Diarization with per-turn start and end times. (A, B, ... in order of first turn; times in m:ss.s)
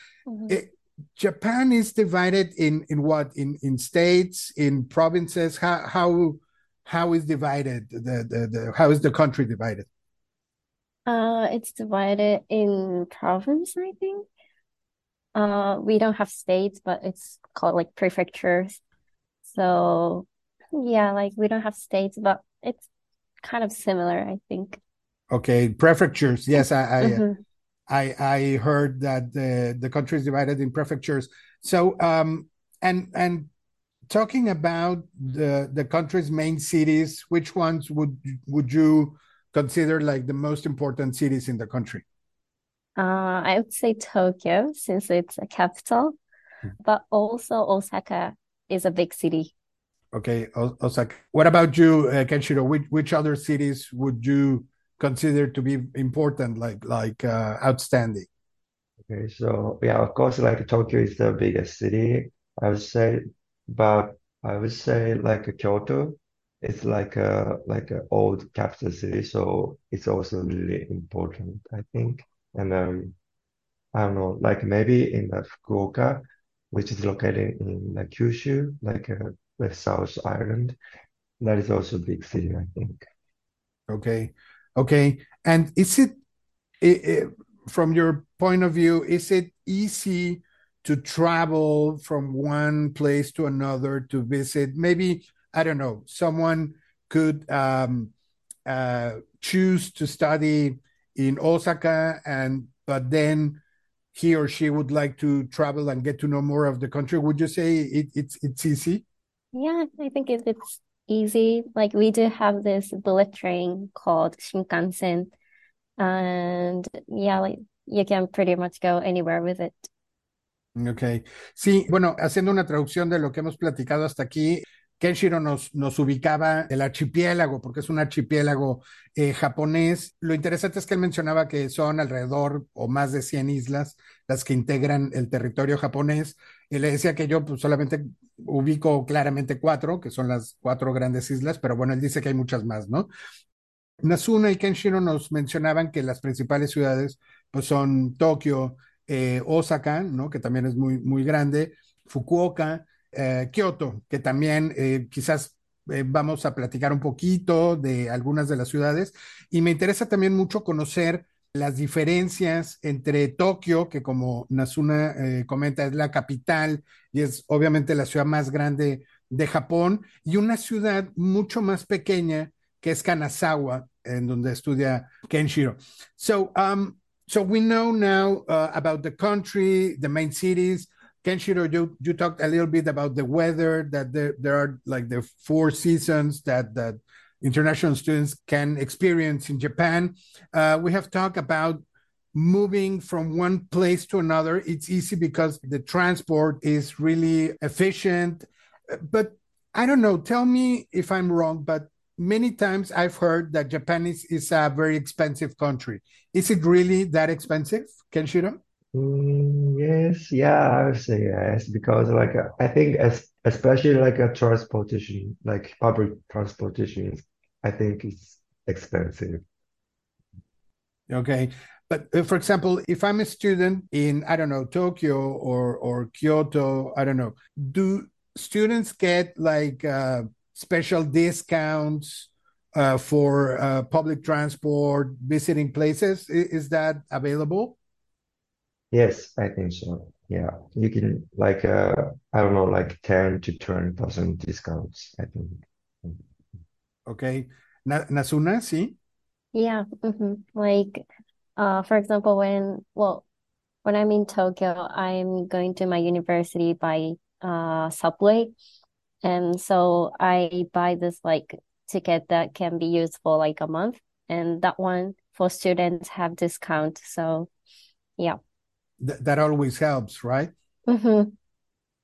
0:00.3-0:00.5 A
0:00.5-0:09.9 B
0:11.0-0:14.2 A
0:15.3-0:18.8 A
0:19.4-0:22.9 A
0:23.4-0:24.8 A
0:25.3-0:27.2 B
0:27.0-0:27.4 A
0:27.9-0:33.5 B
0:34.1-0:42.0 B
0:43.0-0:46.2 A
0:46.8-0:49.5 A
0:50.1-0:58.3 B
0:59.1-1:13.1 C
1:13.9-1:20.8 C
1:21.4-1:23.0 C
1:23.9-1:26.2 B
1:26.8-1:38.1 B
1:38.6-1:43.6 B
1:44.1-1:49.0 B
1:49.5-1:55.3 A
1:56.0-1:59.9 A
2:00.8-2:23.1 B
2:24.0-3:11.8 B
3:12.3-3:28.6 B
3:28.9-3:39.4 C
3:41.1-3:57.8 B
3:58.9-4:06.2 C
4:07.1-4:08.9 B
4:09.5-4:11.0 A
4:11.6-4:13.2 A
4:13.8-4:18.5 A
4:19.2-4:27.5 A
4:29.0-4:30.5 B
4:30.9-4:31.3 A